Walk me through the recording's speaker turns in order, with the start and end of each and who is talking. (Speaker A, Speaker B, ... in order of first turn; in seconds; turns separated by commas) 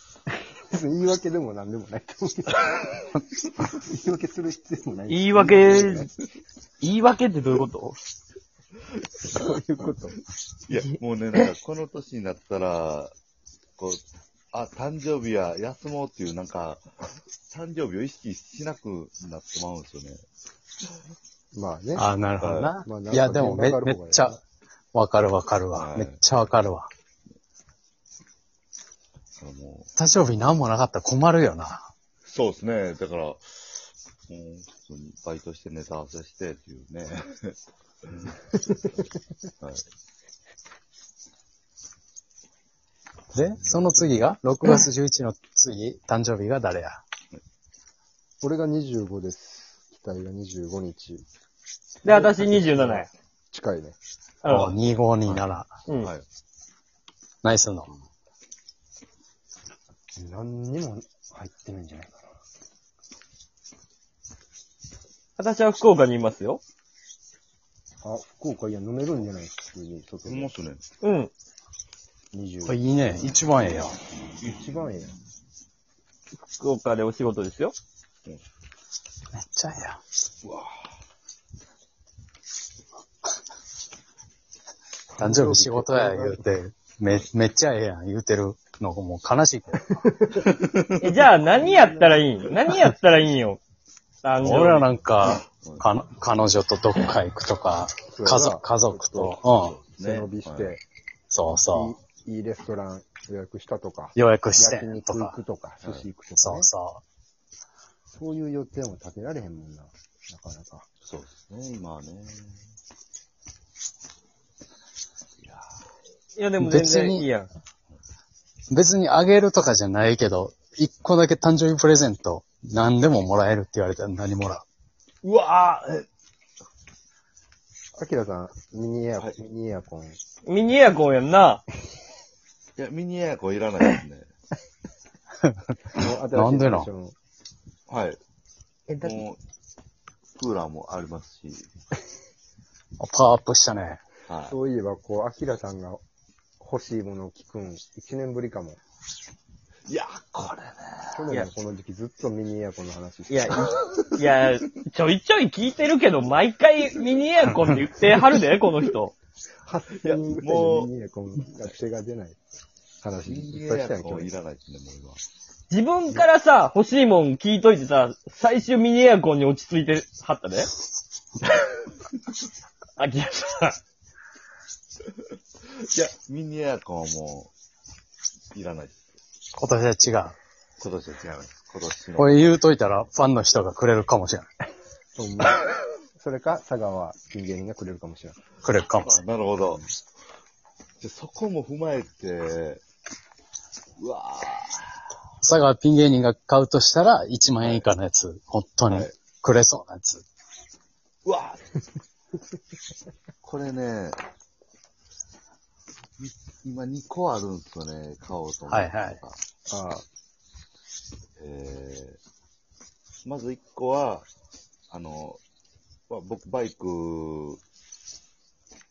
Speaker A: 0.7-6.1, Speaker B: 5.1-6.1, Speaker B: 6.8-8.0, Speaker A: 9.3-10.2, Speaker C: 10.7-13.2, Speaker C: 13.8-16.9, Speaker C: 17.5-20.2, Speaker A: 21.5-22.1, Speaker D: 22.0-24.4, Speaker C: 22.4-22.7, Speaker A: 22.8-24.4, Speaker D: 24.9-26.9, Speaker C: 25.7-26.2, Speaker C: 29.4-29.9, Speaker D: 29.9-31.9, Speaker C: 32.2-38.4, Speaker C: 39.6-39.9, Speaker D: 43.3-47.0, Speaker A: 48.4-51.2, Speaker B: 52.0-53.1, Speaker A: 52.0-54.0, Speaker B: 54.4-54.7, Speaker D: 54.5-55.8, Speaker C: 56.0-56.2, Speaker D: 57.4-57.9, Speaker A: 60.2-62.2, Speaker B: 65.3-66.6, Speaker A: 68.0-70.5, Speaker C: 70.2-70.8, Speaker B: 71.0-71.3, Speaker A: 72.3-73.5, Speaker D: 72.6-74.0, Speaker C: 74.4-75.0, Speaker A: 74.4-75.1, Speaker B: 76.5-77.7, Speaker D: 79.3-80.0, Speaker C: 80.4-80.9, Speaker A: 85.1-86.5, Speaker D: 85.2-90.0, Speaker A: 89.9-90.5, Speaker C: 90.5-91.2, Speaker B: 91.0-93.6, Speaker A: 91.4-92.2, Speaker B: 94.2-94.9, Speaker D: 94.4-99.8, Speaker C: 95.5-95.8, Speaker A: 98.0-99.4, Speaker C: 99.6-100.7, Speaker A: 99.9-100.8, Speaker D: 101.3-101.9, Speaker A: 101.5-106.7, Speaker D: 104.2-105.4, Speaker C: 105.8-106.1, Speaker D: 106.4-107.0, Speaker A: 108.1-110.9, Speaker C: 111.0-112.7, Speaker C: 115.4-115.8, Speaker B: 116.3-117.5, Speaker D: 116.6-117.3, Speaker D: 118.7-124.6, Speaker C: 125.2-126.0, Speaker A: 128.0-130.2, Speaker B: 130.4-131.6, Speaker C: 132.8-134.3, Speaker D: 135.4-136.9, Speaker A: 135.9-137.2, Speaker C: 137.9-138.2, Speaker B: 138.9-139.2, Speaker C: 139.0-139.4, Speaker C: 140.3-141.7, Speaker D: 143.0-144.0, Speaker C: 144.2-144.6, Speaker A: 144.4-146.0, Speaker A: 146.6-148.8, Speaker C: 149.9-151.2, Speaker A: 151.1-153.9, Speaker B: 153.3-159.1, Speaker C: 153.7-154.4, Speaker A: 159.7-162.4, Speaker C: 159.9-160.9, Speaker A: 163.0-164.3, Speaker C: 163.2-165.2, Speaker B: 165.7-170.7, Speaker B: 173.0-173.8, Speaker C: 175.8-177.5, Speaker C: 178.5-179.0, Speaker D: 179.6-180.3, Speaker C: 180.8-182.5, Speaker D: 182.1-184.5, Speaker A: 185.2-188.4, Speaker D: 188.6-189.2, Speaker C: 189.0-189.8, Speaker C: 191.0-192.8, Speaker C: 194.0-195.1, Speaker D: 195.4-200.2, Speaker C: 197.6-197.9, Speaker C: 201.2-201.6, Speaker C: 203.4-204.2, Speaker C: 206.2-209.4, Speaker D: 208.7-209.2, Speaker A: 209.7-210.0, Speaker C: 211.4-212.2, Speaker C: 213.2-214.3, Speaker C: 214.9-215.4, Speaker C: 216.1-217.6